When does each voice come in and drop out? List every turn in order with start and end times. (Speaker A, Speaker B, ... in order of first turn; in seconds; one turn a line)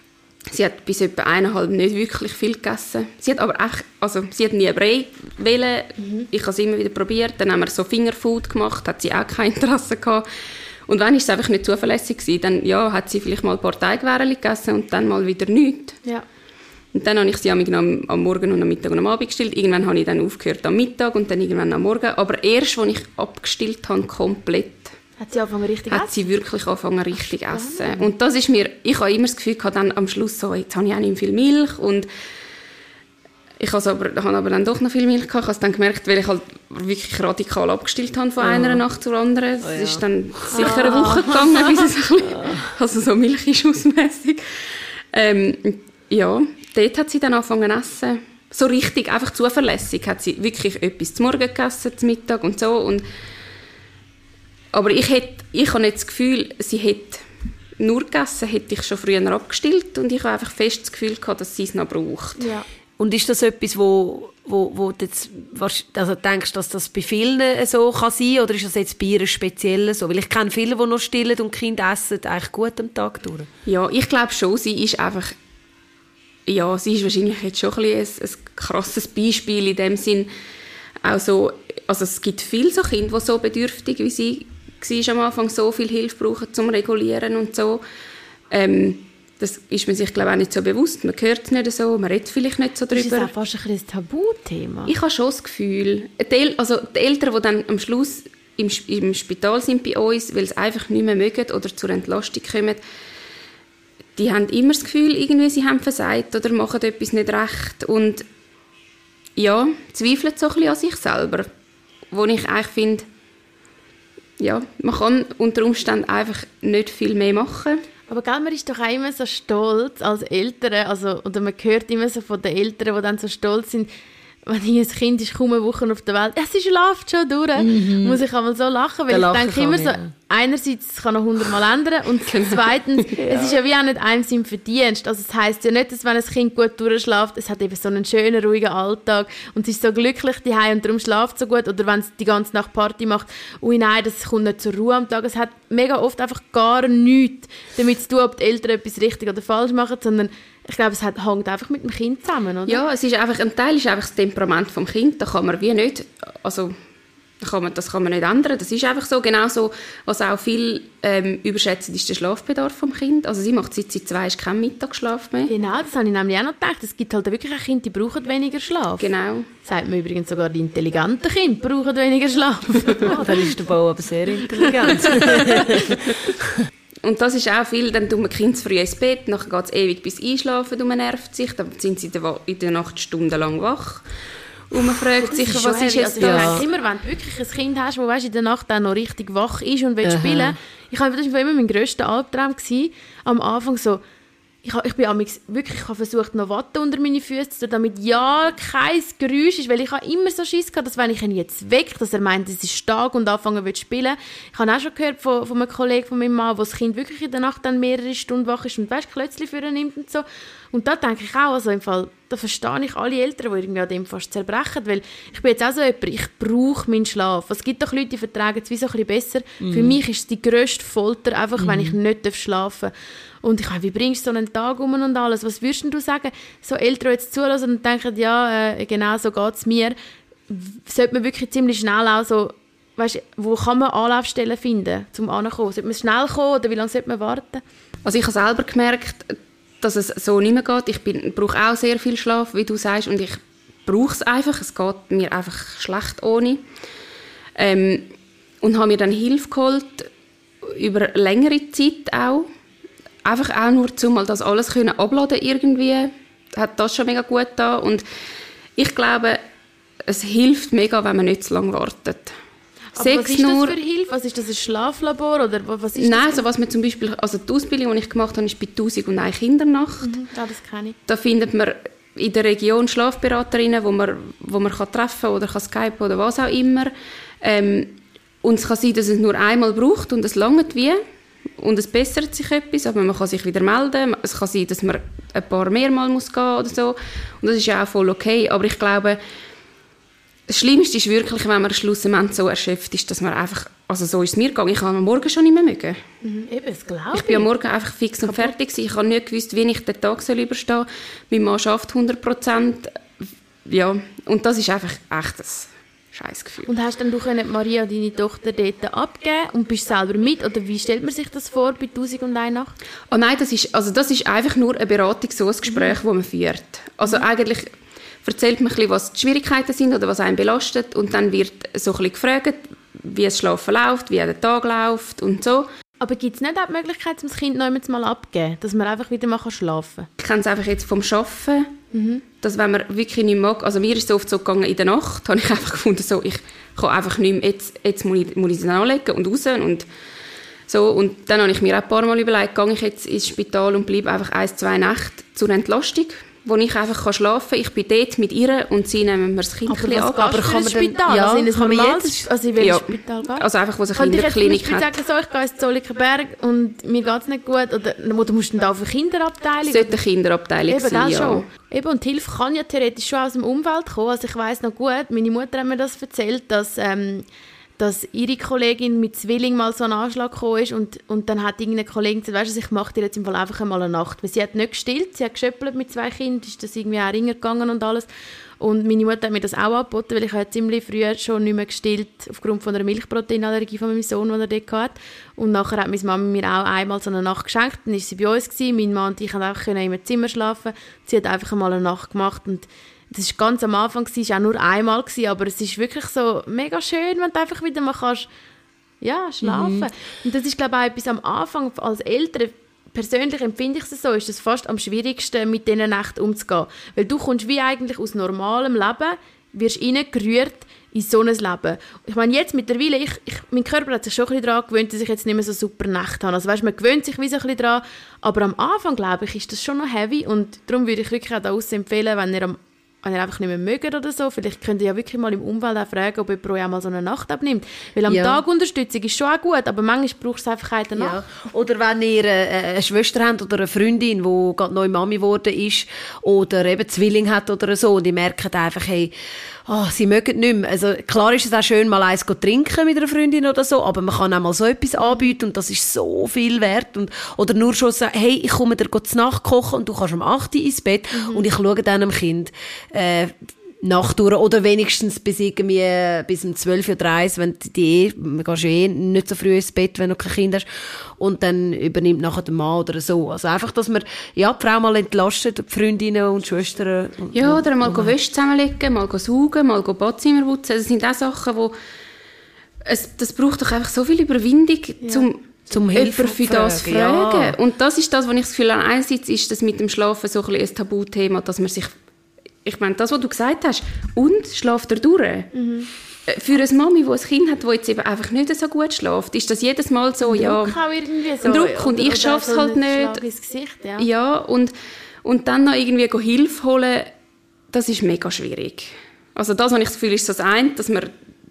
Speaker A: 0.5-10.2
Speaker B: 6.0-6.3
Speaker A: 10.9-16.0
Speaker A: 16.9-24.9
Speaker B: 25.2-26.2
Speaker A: 25.9-32.1
Speaker B: 27.5-28.1
Speaker A: 33.6-53.0
Speaker C: 38.4-38.8
Speaker C: 39.6-40.0
Speaker B: 40.5-41.9
Speaker C: 42.3-42.7
Speaker A: 54.7-57.2
Speaker A: 57.8-62.5
Speaker B: 62.4-62.7
Speaker C: 63.0-73.5
Speaker A: 73.7-75.3
Speaker A: 76.5-80.3
Speaker A: 81.0-87.8
Speaker A: 88.5-93.3
Speaker B: 92.9-94.9
Speaker A: 94.9-102.8
Speaker A: 104.2-108.2
Speaker A: 109.4-111.5
Speaker A: 112.1-113.1
Speaker A: 114.4-117.8
Speaker B: 118.1-123.9
Speaker B: 124.5-152.8
Speaker C: 127.6-128.2
Speaker C: 129.1-130.1
Speaker A: 132.2-133.2
Speaker A: 152.7-156.7
Speaker A: 157.4-165.5
Speaker B: 165.5-169.1
Speaker A: 169.0-169.5
Speaker B: 169.6-173.5
Speaker C: 173.0-176.6
Speaker B: 174.5-175.9
Speaker A: 177.0-184.0
Speaker A: 184.7-186.6
Speaker B: 185.2-194.0
Speaker C: 186.2-186.6
Speaker C: 190.0-190.5
Speaker B: 194.6-222.9
Speaker C: 219.6-220.0
Speaker C: 221.6-222.0
Speaker B: 223.4-229.9
Speaker B: 230.5-237.6
Speaker A: 238.1-246.6
Speaker A: 247.6-248.1
Speaker A: 248.6-250.1
Speaker A: 250.6-252.5
Speaker A: 253.2-258.0
Speaker A: 258.8-259.4
Speaker A: 260.1-262.4
Speaker B: 263.0-266.4
Speaker A: 263.0-263.8
Speaker A: 266.0-270.2
Speaker B: 270.0-271.0
Speaker A: 271.1-281.0
Speaker A: 281.6-289.2
Speaker A: 290.5-296.0
Speaker B: 296.2-297.5
Speaker A: 297.1-303.0
Speaker B: 298.2-298.5
Speaker A: 303.7-306.7
Speaker B: 306.7-312.7
Speaker A: 313.1-317.7
Speaker B: 315.7-316.0
Speaker A: 318.2-325.7
Speaker B: 326.0-330.1
Speaker A: 330.2-331.7
Speaker B: 331.9-332.2
Speaker A: 332.4-339.9
Speaker A: 340.7-350.4
Speaker B: 349.7-360.0
Speaker C: 350.2-352.3
Speaker A: 352.6-354.9
Speaker A: 359.7-361.5
Speaker B: 360.7-367.3
Speaker B: 367.8-378.1
Speaker B: 378.6-398.3
Speaker B: 399.0-431.2
Speaker C: 399.4-399.9
Speaker C: 428.1-428.4
Speaker C: 431.0-439.1
Speaker C: 439.7-460.7
Speaker B: 451.1-451.5
Speaker C: 461.2-468.1
Speaker A: 467.3-471.7
Speaker A: 472.8-475.4
Speaker B: 475.0-475.3
Speaker C: 475.7-477.6
Speaker A: 475.9-481.9
Speaker A: 482.6-485.5
Speaker B: 485.5-485.9
Speaker A: 486.3-490.8
Speaker B: 490.2-494.1
Speaker A: 491.4-493.2
Speaker A: 494.0-494.7
Speaker A: 495.2-497.1
Speaker A: 497.7-501.1